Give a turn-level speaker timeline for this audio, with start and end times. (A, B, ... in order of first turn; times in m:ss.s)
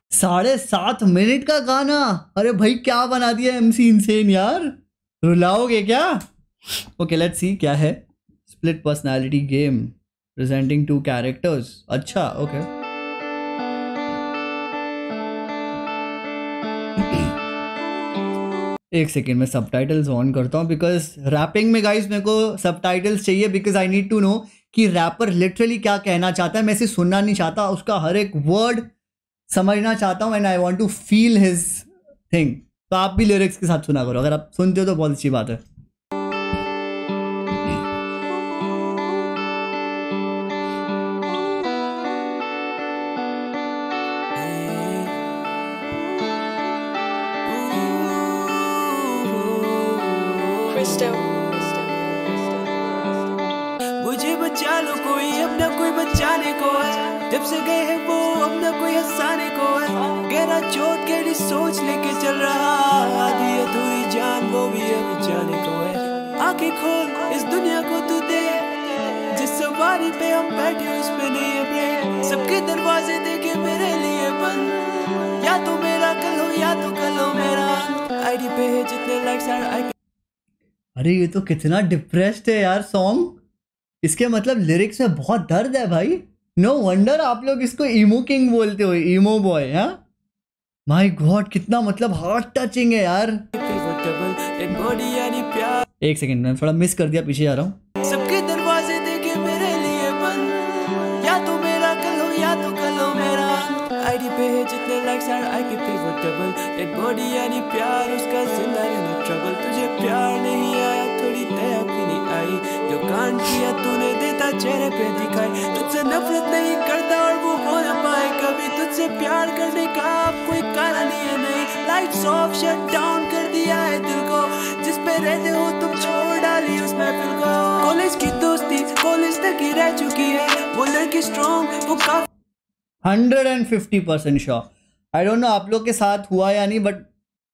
0:00.2-0:06.2 A
0:07.0-0:12.7 A
0:17.0-0:17.3 A
0:18.9-0:28.8 A
0:29.5-0:35.6 A
0:44.3-0:45.3 B
0:47.4-1:19.9 B
1:21.0-1:23.4 A
1:24.0-1:30.0 A
1:30.9-1:33.4 A
1:33.5-1:35.8 B
1:36.0-1:37.8 A
1:38.0-2:12.2 B
2:13.0-2:17.1 A